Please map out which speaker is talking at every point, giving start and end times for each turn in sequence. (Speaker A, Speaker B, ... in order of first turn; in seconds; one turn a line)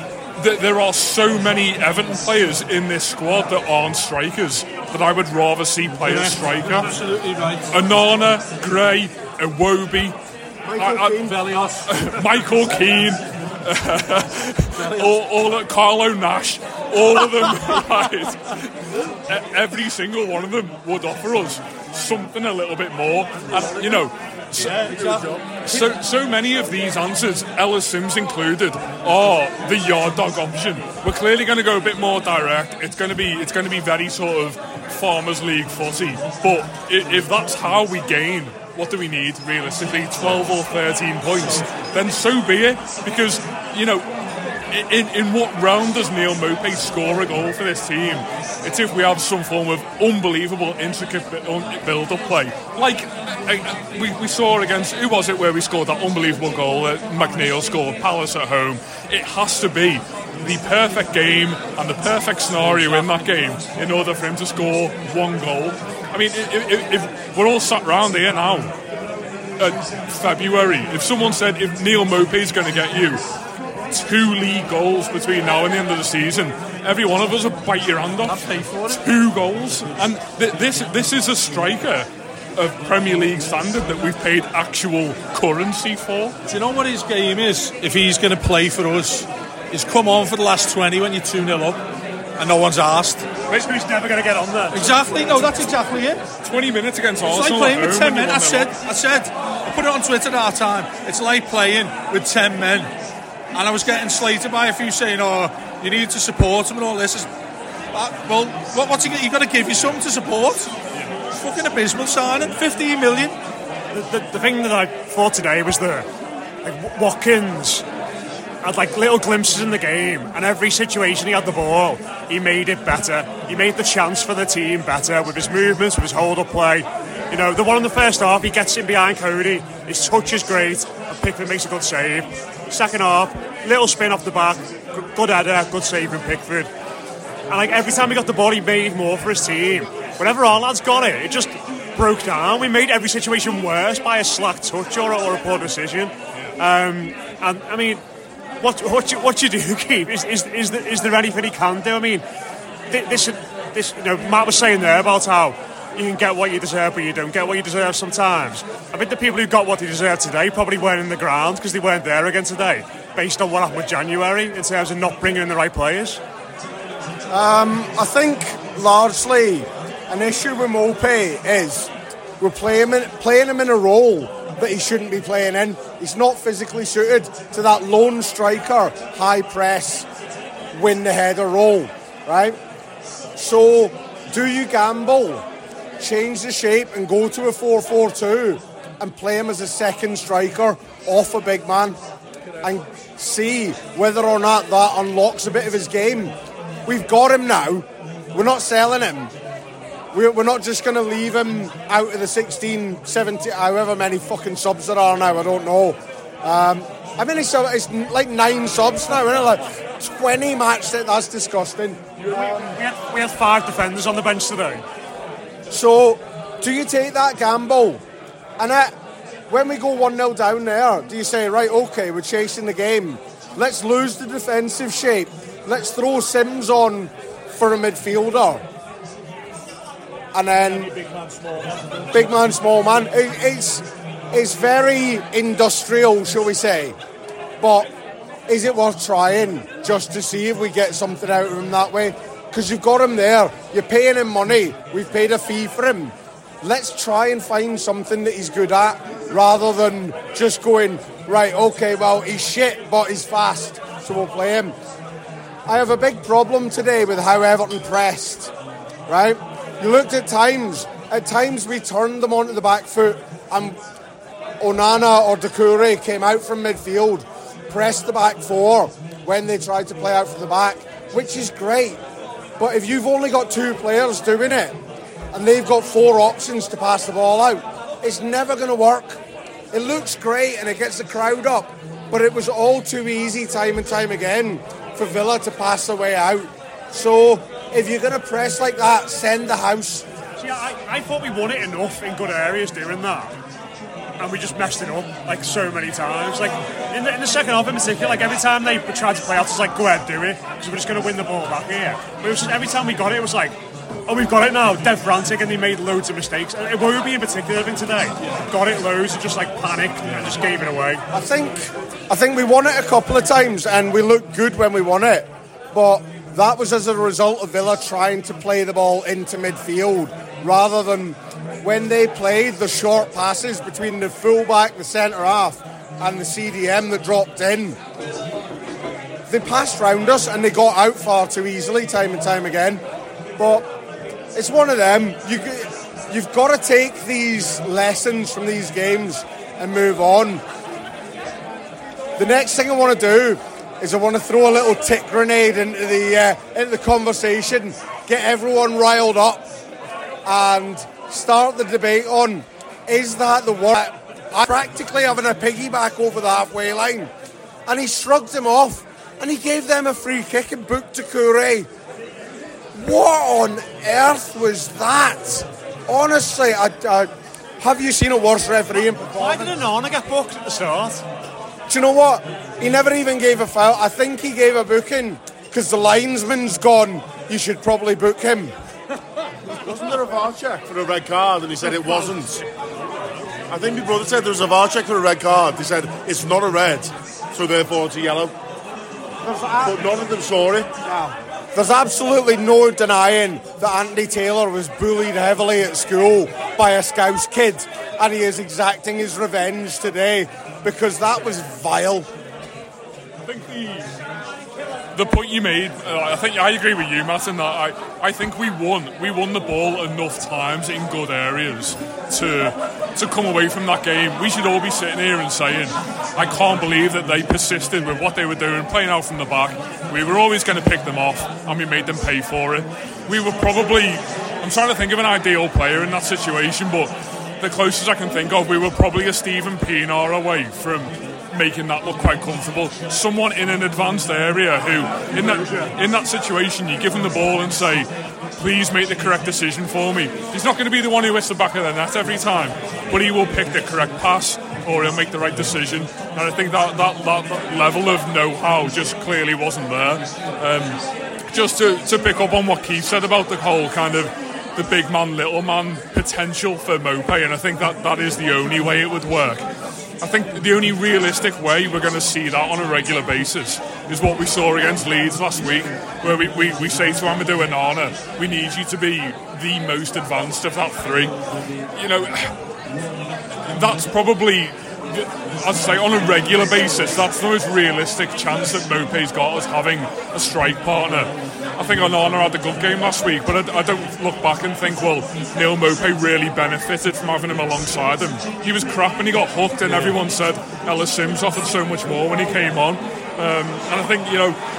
Speaker A: 0.4-6.9
Speaker B: 6.0-7.7
Speaker A: 7.7-10.2
Speaker C: 10.7-11.4
Speaker A: 10.8-11.2
Speaker B: 11.1-12.3
Speaker A: 11.8-44.0
Speaker B: 14.8-15.2
Speaker B: 23.5-25.8
Speaker A: 44.7-68.7
Speaker A: 69.6-73.2
Speaker A: 73.9-86.3
Speaker B: 78.2-79.0
Speaker B: 86.4-91.8
Speaker B: 92.4-93.2
Speaker D: 93.5-94.8
Speaker B: 94.7-96.2
Speaker A: 96.4-98.7
Speaker B: 97.2-102.9
Speaker B: 103.5-107.3
Speaker B: 107.9-110.7
Speaker B: 111.3-113.4
Speaker D: 113.9-116.0
Speaker D: 116.6-117.8
Speaker D: 118.6-136.7
Speaker D: 137.5-148.0
Speaker D: 148.6-152.2
Speaker D: 152.9-166.2
Speaker C: 167.3-180.1
Speaker C: 180.7-182.6
Speaker C: 183.3-185.4
Speaker C: 186.0-192.0
Speaker C: 192.6-196.3
Speaker C: 196.8-199.3
Speaker C: 200.1-212.8
Speaker D: 212.3-214.8
Speaker C: 215.7-218.0
Speaker C: 218.6-218.9
Speaker C: 219.5-228.6
Speaker C: 230.3-230.9
Speaker B: 230.8-232.1
Speaker C: 232.1-237.0
Speaker C: 237.6-237.9
Speaker C: 238.5-254.7
Speaker C: 255.7-258.5
Speaker C: 259.1-263.8
Speaker C: 264.6-272.0
Speaker C: 272.6-274.8
Speaker C: 275.3-279.2
Speaker C: 279.7-290.1
Speaker D: 290.4-293.3
Speaker D: 294.2-303.6
Speaker D: 304.1-311.0
Speaker C: 311.1-327.8
Speaker C: 329.3-332.8
Speaker C: 333.4-333.7
Speaker C: 334.3-340.4
Speaker C: 342.2-349.4
Speaker C: 350.2-357.1
Speaker C: 357.7-361.7
Speaker C: 362.7-369.6
Speaker D: 369.2-371.0
Speaker C: 371.7-378.5
Speaker E: 379.6-382.4
Speaker E: 383.5-388.3
Speaker C: 389.2-389.9
Speaker E: 389.6-390.7
Speaker C: 390.8-402.1
Speaker A: 403.2-403.9
Speaker A: 404.9-450.8
Speaker A: 451.3-459.4
Speaker A: 460.0-471.1
Speaker A: 471.7-472.3
Speaker A: 473.5-494.4